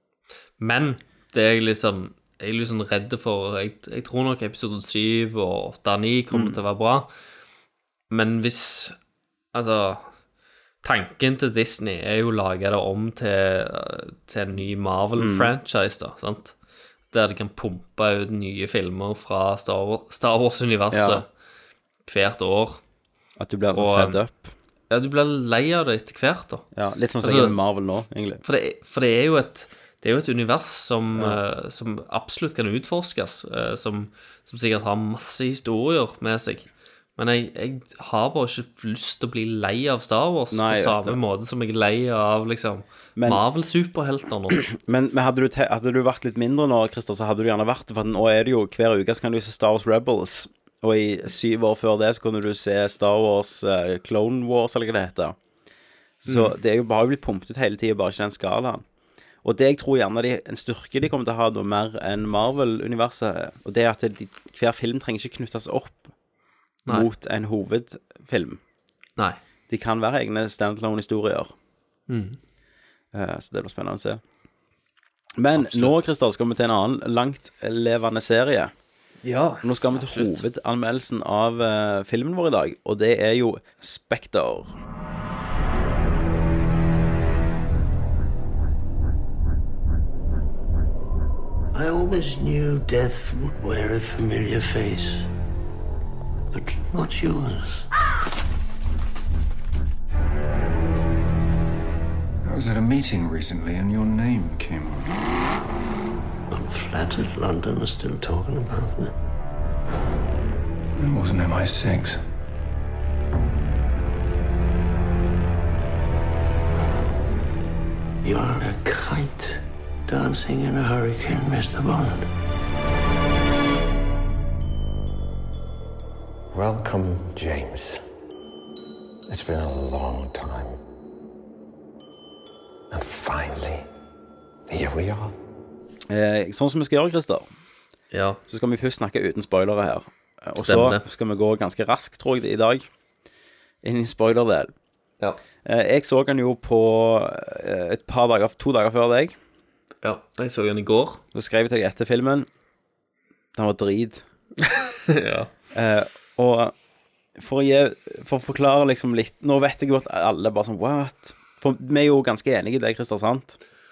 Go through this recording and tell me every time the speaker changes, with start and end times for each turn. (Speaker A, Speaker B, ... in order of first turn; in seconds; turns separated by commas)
Speaker A: 0.6-7.1, Speaker B: 6.3-6.6, Speaker A: 8.1-8.9, Speaker A: 9.5-10.0, Speaker A: 10.8-16.5, Speaker B: 15.2-15.5, Speaker A: 17.1-21.3, Speaker B: 20.9-21.2, Speaker A: 22.1-22.8, Speaker B: 23.4-24.5, Speaker A: 23.7-24.2, Speaker A: 24.9-26.6, Speaker B: 26.7-28.4, Speaker A: 27.2-27.6, Speaker A: 28.4-44.6, Speaker B: 40.5-41.2, Speaker B: 44.7-55.4, Speaker B: 56.2-58.8, Speaker A: 56.3-56.5, Speaker B: 59.4-66.1, Speaker B: 66.9-68.6, Speaker B: 69.7-71.5, Speaker A: 72.1-72.4, Speaker B: 73.1-74.2, Speaker B: 75.4-78.7, Speaker A: 75.5-76.1, Speaker A: 79.2-80.4, Speaker B: 79.6-84.7, Speaker C: 91.7-95.3, Speaker C: 96.5-97.9, Speaker D: 102.4-105.2, Speaker C: 106.5-109.1, Speaker D: 111.0-112.2, Speaker C: 118.2-122.3, Speaker E: 126.5-128.0, Speaker E: 129.3-130.8, Speaker E: 132.9-133.8, Speaker E: 134.7-135.3, Speaker B: 136.1-137.5, Speaker A: 138.1-138.4, Speaker B: 138.5-142.8, Speaker A: 140.6-141.0, Speaker B: 143.8-144.7, Speaker B: 145.6-149.3, Speaker A: 150.0-151.2, Speaker B: 151.3-152.4, Speaker B: 153.6-154.2, Speaker A: 154.7-155.5, Speaker B: 155.7-156.7, Speaker B: 157.4-163.6